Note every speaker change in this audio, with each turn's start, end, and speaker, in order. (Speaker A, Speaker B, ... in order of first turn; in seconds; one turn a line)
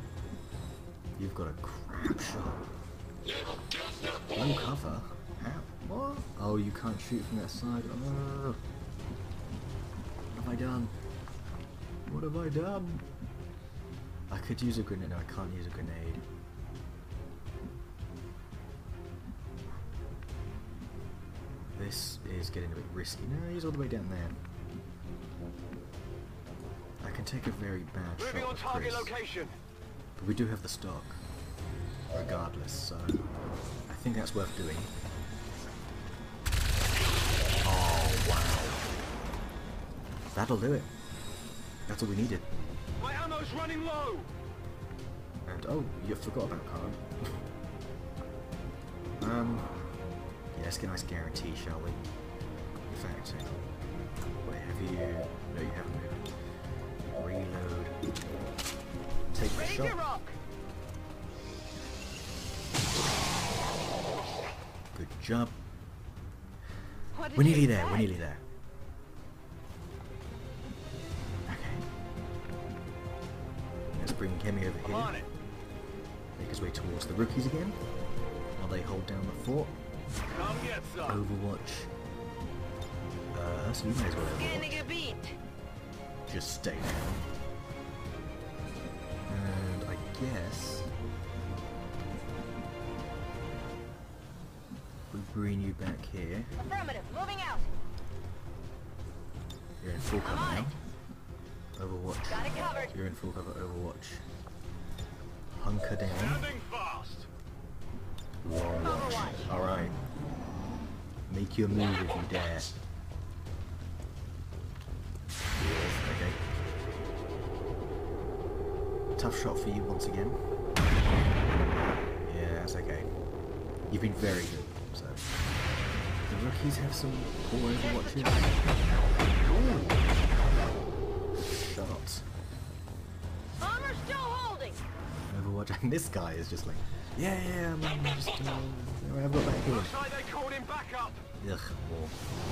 Speaker A: 1.2-2.6
Speaker A: 4.3-8.6
Speaker A: 10.3-10.9
Speaker A: 12.1-13.1
Speaker A: 14.3-16.2
Speaker A: 21.7-24.4
Speaker A: 27.0-29.1
Speaker B: 28.2-29.5
Speaker A: 30.2-31.2
Speaker A: 32.1-33.2
Speaker A: 33.9-34.9
Speaker A: 37.6-38.8
Speaker A: 40.3-40.9
Speaker A: 41.9-42.5
Speaker B: 43.0-44.3
Speaker A: 45.4-47.4
Speaker A: 49.2-49.7
Speaker A: 50.5-52.0
Speaker A: 52.9-53.7
Speaker A: 54.4-56.3
Speaker A: 57.1-58.0
Speaker A: 59.3-60.0
Speaker C: 59.5-60.3
Speaker A: 64.9-65.5
Speaker C: 67.1-68.2
Speaker A: 67.3-68.4
Speaker A: 71.5-71.8
Speaker A: 73.9-75.1
Speaker B: 74.8-75.3
Speaker A: 76.4-77.8
Speaker A: 78.6-79.7
Speaker B: 80.3-81.2
Speaker A: 81.0-81.9
Speaker A: 83.3-84.9
Speaker C: 84.2-85.3
Speaker A: 86.3-87.3
Speaker A: 89.3-90.9
Speaker A: 95.1-96.5
Speaker C: 96.6-97.7
Speaker A: 99.8-100.8
Speaker C: 100.2-100.8
Speaker A: 101.8-104.2
Speaker C: 102.3-102.9
Speaker A: 105.5-106.5
Speaker B: 106.0-107.3
Speaker A: 108.4-110.0
Speaker C: 108.8-109.4
Speaker A: 111.3-112.7
Speaker A: 115.5-116.4
Speaker A: 119.2-120.4
Speaker A: 122.2-123.1
Speaker A: 123.9-125.3
Speaker A: 126.3-128.8
Speaker C: 127.8-128.6
Speaker A: 129.4-130.1
Speaker A: 131.3-132.2
Speaker C: 133.6-134.8
Speaker A: 135.3-140.0
Speaker B: 139.6-141.2
Speaker A: 141.4-142.2